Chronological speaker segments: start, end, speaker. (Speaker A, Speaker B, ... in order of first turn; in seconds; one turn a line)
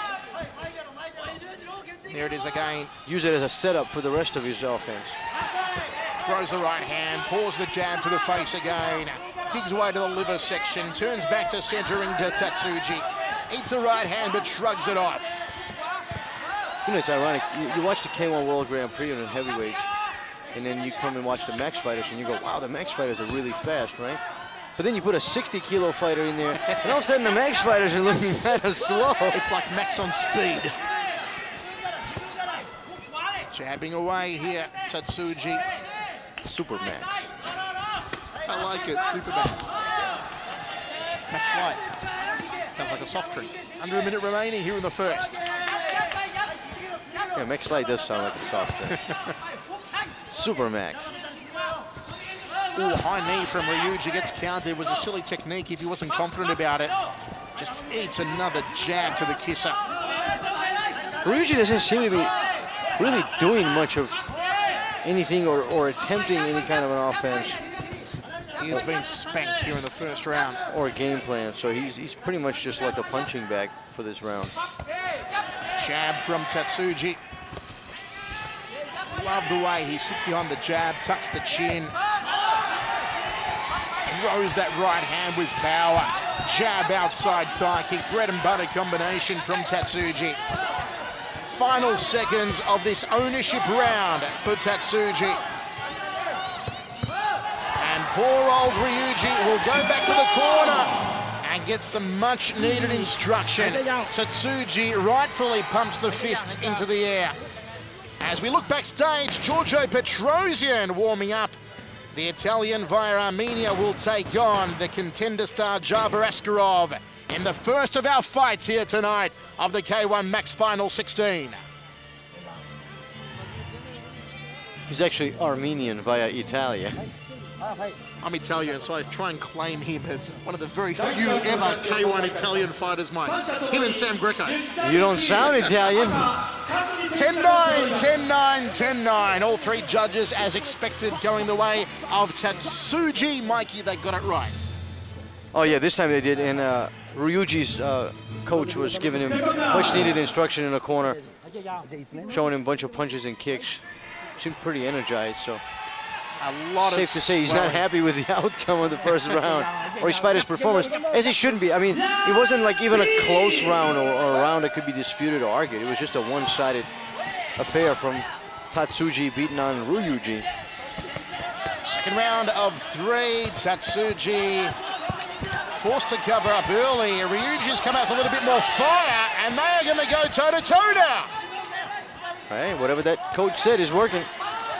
Speaker A: 2.1-2.9
Speaker B: 3.0-5.2
Speaker A: 6.2-15.4
Speaker B: 16.9-19.9
Speaker B: 20.5-24.2
Speaker B: 24.8-29.4
Speaker A: 26.5-27.0
Speaker A: 29.3-30.7
Speaker A: 33.5-35.6
Speaker B: 36.4-37.3
Speaker A: 38.5-39.7
Speaker A: 41.3-41.8
Speaker A: 42.7-45.4
Speaker B: 47.4-49.0
Speaker A: 49.0-49.3
Speaker B: 50.3-51.1
Speaker A: 52.7-56.9
Speaker A: 57.5-59.8
Speaker B: 61.2-62.3
Speaker B: 63.0-64.2
Speaker B: 65.0-67.6
Speaker A: 68.6-70.6
Speaker B: 70.7-74.6
Speaker A: 75.8-77.2
Speaker A: 79.1-81.9
Speaker A: 84.0-90.4
Speaker A: 91.5-95.4
Speaker A: 97.8-107.4
Speaker A: 108.2-111.5
Speaker A: 112.1-121.6
Speaker B: 124.9-127.1
Speaker A: 128.2-134.7
Speaker B: 134.8-136.3
Speaker A: 135.4-136.0
Speaker A: 136.7-144.6
Speaker B: 145.5-151.2
Speaker B: 152.2-153.8
Speaker B: 154.4-155.6
Speaker A: 156.4-157.8
Speaker B: 156.8-166.9
Speaker B: 167.6-170.4
Speaker A: 171.8-174.7
Speaker A: 175.7-181.3
Speaker B: 182.5-184.3